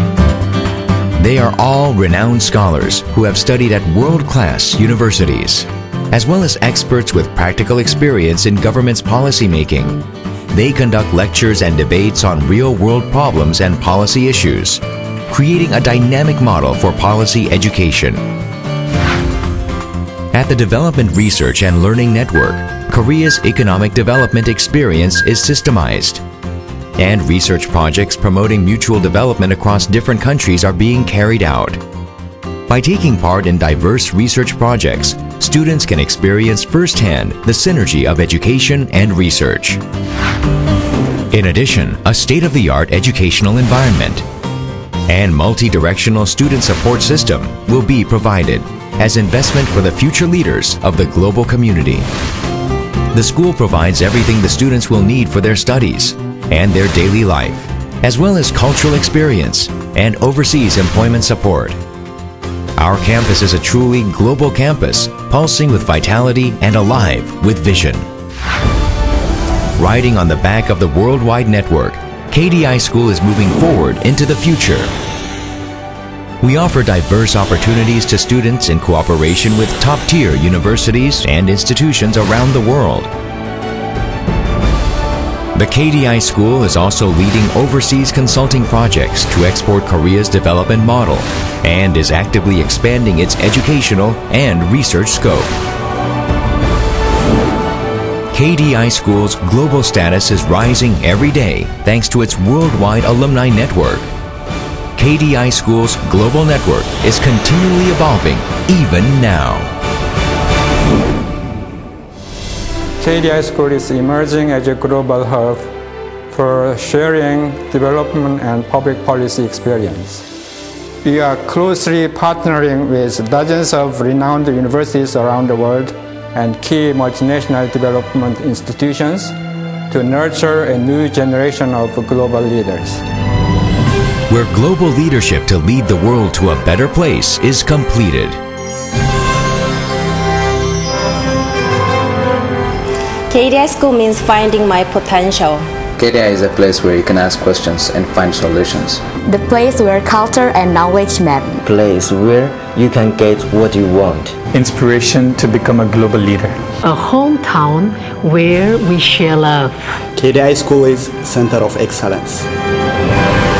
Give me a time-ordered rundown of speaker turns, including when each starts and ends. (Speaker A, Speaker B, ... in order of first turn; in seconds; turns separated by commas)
Speaker A: 1.2-18.2, Speaker A: 20.3-26.2, Speaker A: 27.0-31.8, Speaker A: 32.7-39.8, Speaker A: 41.3-44.2, Speaker A: 45.1-52.1, Speaker A: 53.1-61.8, Speaker A: 62.8-68.1, Speaker A: 69.8-74.9, Speaker A: 76.4-83.1, Speaker A: 85.5-95.5, Speaker A: 98.3-104.1, Speaker A: 105.0-109.8, Speaker B: 113.0-115.7, Speaker B: 116.3-120.2, Speaker B: 121.0-129.3, Speaker B: 129.9-133.0, Speaker A: 134.3-138.4, Speaker C: 143.3-145.7, Speaker D: 146.0-149.0, Speaker E: 149.2-151.7, Speaker F: 151.7-154.3, Speaker G: 154.5-156.6, Speaker H: 156.8-159.8, Speaker I: 160.2-162.5